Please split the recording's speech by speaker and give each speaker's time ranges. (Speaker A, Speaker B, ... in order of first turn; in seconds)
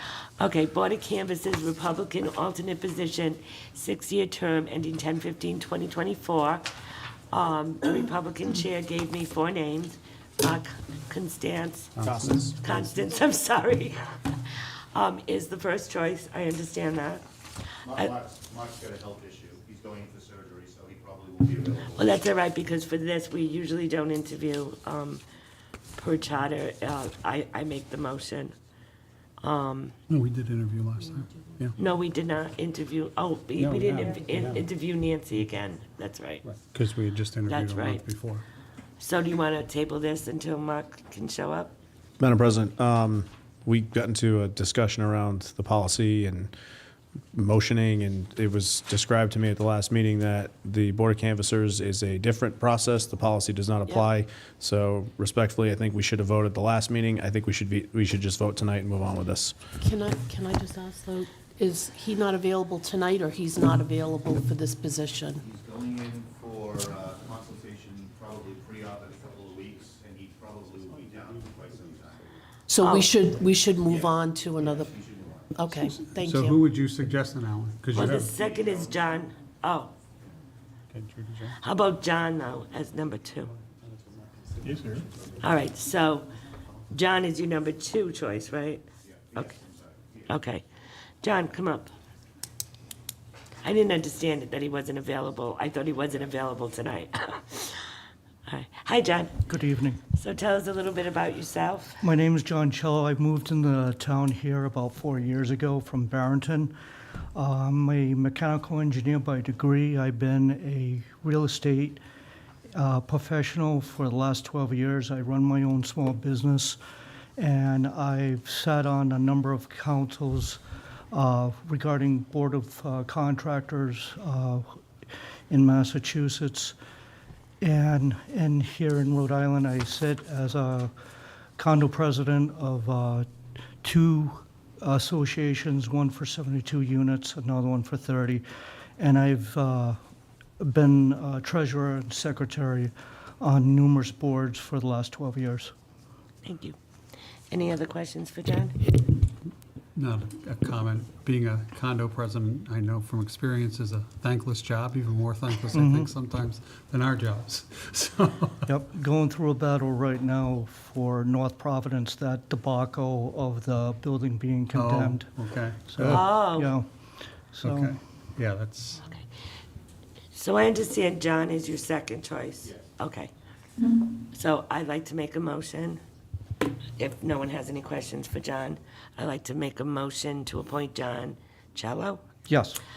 Speaker A: 0.4-6.7, 7.3-11.9, 12.6-17.2, 21.9-25.2, 26.0-28.5, 29.4-29.9, 31.8-36.4, 37.5-38.0, 39.0-41.7, 72.8-73.2, 77.9-79.9, 81.6-83.5, 85.4-86.3, 86.9-89.6, 90.3-90.6, 91.2-91.9, 93.6-97.9, 98.5-99.4, 100.1-102.0, 146.4-146.8, 147.5-148.8, 166.1-166.7, 170.3-173.3, 174.3-176.0, 177.0-182.2
Speaker B: 11.9-12.4, 30.1-31.8, 33.6-34.6, 36.4-38.4, 75.8-78.3, 80.9-81.6, 149.9-158.7, 164.7-166.3, 167.6-169.0
Speaker C: 12.0-12.6, 42.2-46.5, 47.3-59.5
Speaker D: 17.9-21.9, 65.4-72.3, 73.8-75.5, 78.1-78.9, 89.1-90.3
Speaker E: 59.8-65.4, 72.7-74.9, 75.5-76.6, 84.7-85.0
Speaker F: 99.5-100.0, 102.0-106.7, 107.3-112.0, 112.7-116.8, 117.4-120.6, 121.1-124.8, 125.5-126.8, 127.6-130.9, 131.6-133.3, 133.8-138.4, 139.0-140.0, 140.6-145.7, 155.7-156.1, 158.7-165.3, 165.9-166.8, 167.5-168.0, 182.5-182.8